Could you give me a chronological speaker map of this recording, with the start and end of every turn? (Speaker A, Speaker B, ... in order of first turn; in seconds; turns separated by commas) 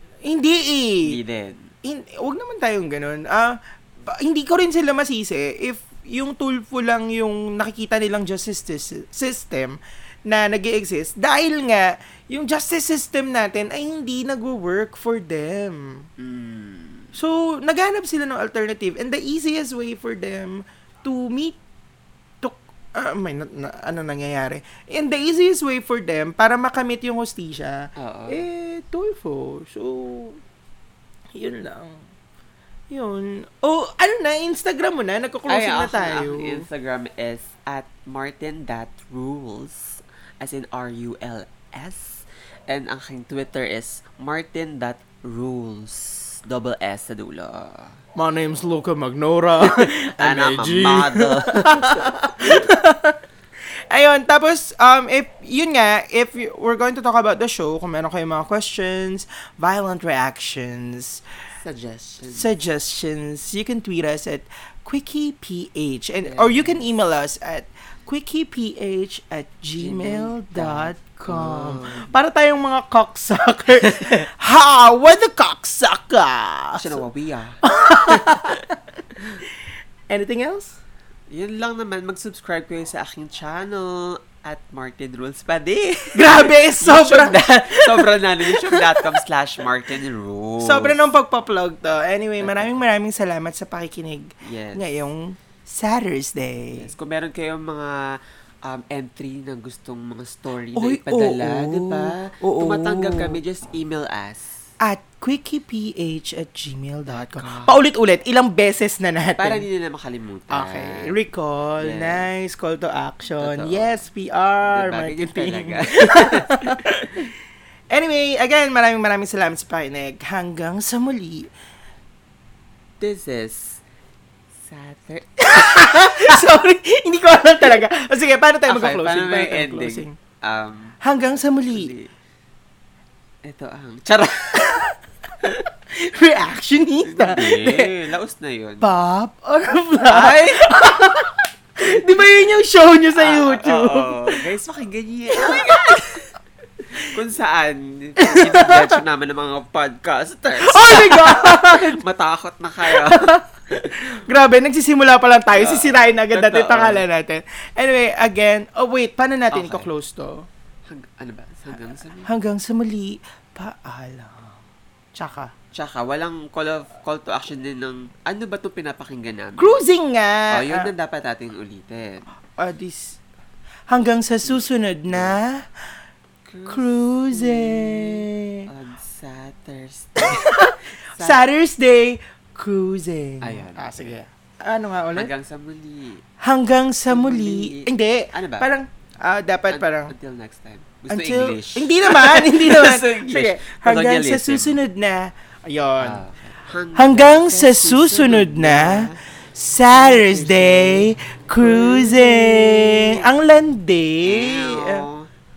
Speaker A: 0.2-1.2, Speaker B: 1.0-1.7, Speaker A: 1.8-16.1, Speaker B: 16.2-17.1, Speaker A: 17.1-21.6, Speaker A: 22.4-30.4, Speaker B: 28.0-28.4, Speaker A: 31.3-32.0, Speaker A: 32.9-36.6, Speaker B: 35.5-48.0, Speaker A: 48.1-53.2, Speaker B: 49.6-52.7, Speaker A: 53.9-61.2, Speaker B: 61.6-62.5, Speaker A: 62.3-77.0, Speaker B: 66.2-66.8, Speaker B: 69.8-72.1, Speaker B: 73.8-74.2, Speaker B: 76.8-78.6, Speaker A: 77.6-78.8, Speaker A: 80.1-80.8, Speaker B: 81.3-91.1, Speaker A: 86.1-89.2, Speaker A: 90.6-96.9, Speaker B: 92.4-92.8, Speaker B: 94.4-94.8, Speaker B: 96.8-104.7, Speaker A: 100.8-103.4, Speaker A: 104.8-109.6, Speaker B: 107.1-107.8, Speaker B: 109.4-111.1, Speaker A: 110.5-117.3, Speaker B: 111.8-112.3, Speaker B: 113.4-114.0, Speaker B: 114.6-116.9, Speaker A: 117.9-121.5, Speaker B: 123.0-123.8, Speaker B: 124.6-126.4, Speaker A: 125.4-130.2, Speaker B: 128.7-131.0, Speaker A: 131.0-131.9, Speaker B: 131.7-132.1, Speaker B: 133.4-134.8, Speaker A: 134.6-134.9, Speaker A: 135.9-137.9, Speaker B: 137.0-138.8, Speaker A: 138.8-144.4, Speaker B: 140.1-140.7, Speaker B: 143.2-146.2, Speaker A: 145.3-146.1, Speaker B: 147.0-153.9, Speaker A: 148.2-149.0, Speaker A: 150.5-152.0, Speaker A: 152.8-160.5, Speaker B: 155.6-157.0, Speaker B: 159.5-159.9, Speaker B: 160.8-162.3, Speaker A: 162.2-164.6, Speaker A: 165.1-165.5, Speaker B: 165.7-169.8, Speaker A: 169.6-170.9, Speaker B: 170.5-172.2, Speaker A: 172.6-173.2, Speaker A: 173.9-175.8, Speaker B: 174.4-175.4, Speaker B: 176.4-180.4, Speaker A: 176.7-178.7, Speaker A: 180.2-185.3, Speaker B: 181.1-181.4, Speaker B: 183.4-184.1, Speaker B: 185.1-186.2, Speaker A: 186.4-190.1, Speaker B: 187.1-188.7, Speaker B: 189.7-194.8, Speaker A: 191.1-196.2, Speaker B: 196.0-199.2, Speaker A: 196.9-205.1, Speaker B: 199.9-203.3, Speaker B: 204.2-205.3